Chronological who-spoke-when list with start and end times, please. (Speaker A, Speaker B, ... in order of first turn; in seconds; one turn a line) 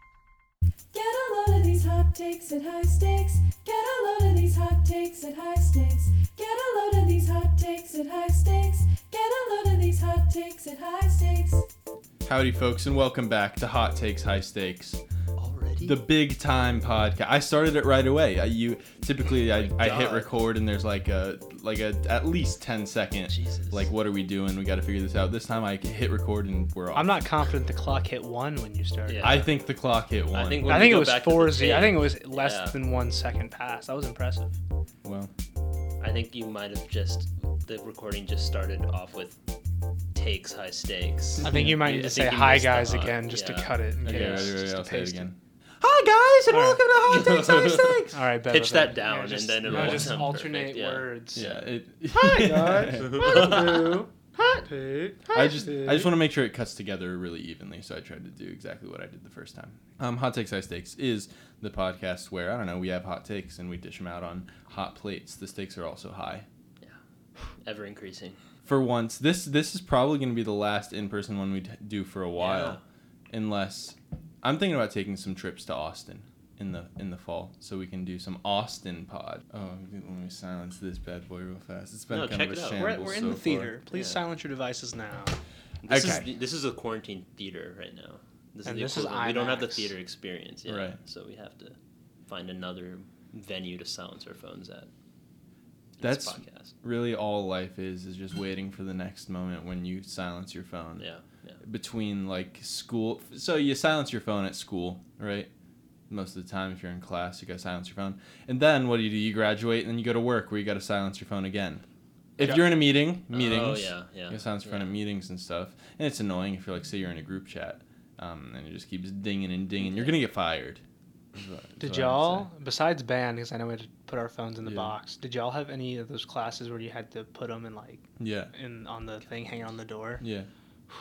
Speaker A: 0.9-11.7
Speaker B: 12.2-15.0
Speaker C: 15.4-16.0
Speaker B: 15.8-27.1
Speaker C: 19.5-20.3
Speaker C: 23.3-23.9
Speaker D: 26.9-29.3
Speaker C: 29.1-29.5
Speaker B: 29.2-30.9
Speaker C: 30.3-32.8
Speaker D: 30.6-34.6
Speaker B: 35.0-35.3
Speaker C: 36.0-39.4
Speaker C: 40.1-44.6
Speaker D: 41.4-45.3
Speaker B: 41.4-41.8
Speaker B: 44.0-48.2
Speaker D: 46.5-46.8
Speaker C: 47.0-51.6
Speaker D: 48.1-51.5
Speaker B: 49.6-50.3
Speaker B: 51.4-53.6
Speaker D: 52.1-56.1
Speaker C: 53.0-54.0
Speaker B: 55.3-66.5
Speaker C: 67.6-68.4
Speaker B: 68.7-72.8
Speaker C: 72.4-72.8
Speaker B: 73.3-83.7
Speaker C: 82.1-82.9
Speaker D: 82.8-85.4
Speaker C: 83.9-84.2
Speaker C: 85.8-91.8
Speaker B: 85.9-86.3
Speaker D: 88.7-89.9
Speaker B: 90.7-91.0
Speaker C: 92.3-94.9
Speaker C: 96.0-96.7
Speaker B: 96.0-101.1
Speaker C: 101.0-101.6
Speaker B: 101.6-105.5
Speaker B: 106.1-111.8
Speaker B: 112.4-120.8
Speaker C: 113.3-114.9
Speaker C: 119.8-120.2
Speaker B: 121.3-122.5
Speaker D: 121.8-130.2
Speaker B: 124.6-125.0
Speaker B: 128.2-128.5
Speaker C: 129.3-129.7
Speaker B: 130.2-130.5